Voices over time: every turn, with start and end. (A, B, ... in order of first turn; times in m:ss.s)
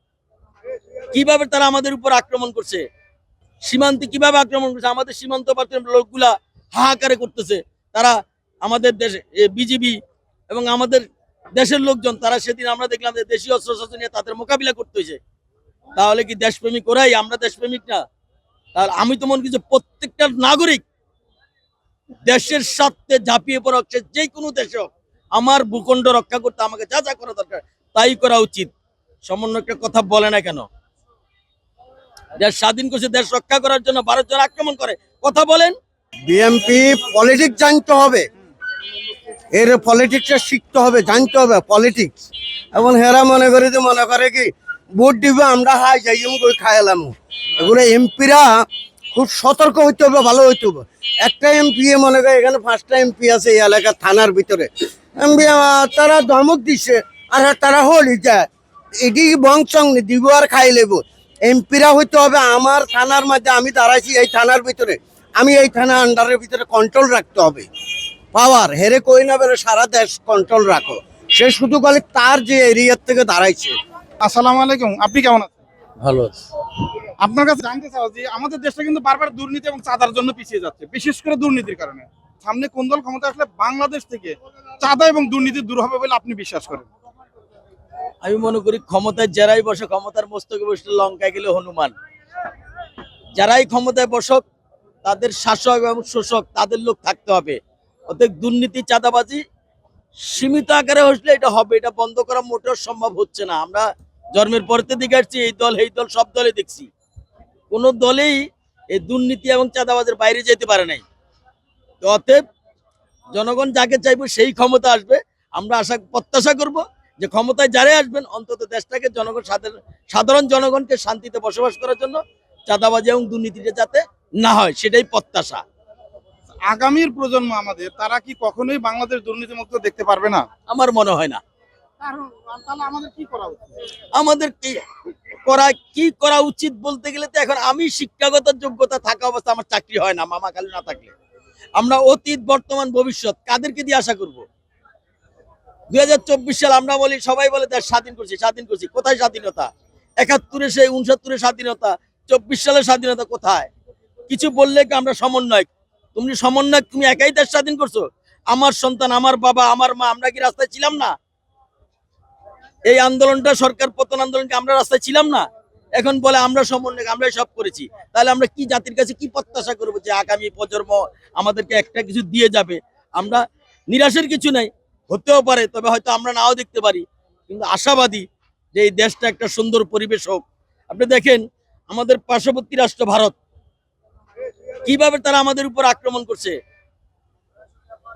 0:01.1-0:02.8 A
0:03.6-0:09.9 A
0:10.5-0:11.0 A
0:11.5-0:15.2 A
0:16.0-0:18.0 A
0:18.7-0:20.8 A
0:22.2-0:28.7 A
0:29.2-0:30.6 A
0:32.4-0:35.7 A
0:36.2-0:38.2 B
0:39.5-0:42.2 B
0:42.7-0:58.5 B
0:59.0-1:07.7 B
1:08.3-1:13.7 B
1:14.2-1:15.5 C
1:17.2-1:26.9 C
1:28.2-1:31.9 A
1:33.4-1:34.4 A
1:35.0-1:37.6 A
1:38.1-1:39.4 A
1:40.3-1:46.9 A
1:47.7-1:48.4 A
1:48.9-1:51.0 A
1:52.0-1:52.4 A
1:53.3-2:05.6 A
2:06.7-2:10.4 C
2:10.7-2:11.4 A
2:12.0-2:13.7 C
2:14.2-2:14.8 A
2:15.4-2:21.1 A
2:21.8-2:24.4 A
2:25.9-2:29.7 A
2:30.2-2:33.7 A
2:34.3-2:41.1 A
2:42.8-2:45.4 A
2:46.0-3:03.3 A
3:04.8-3:06.6 A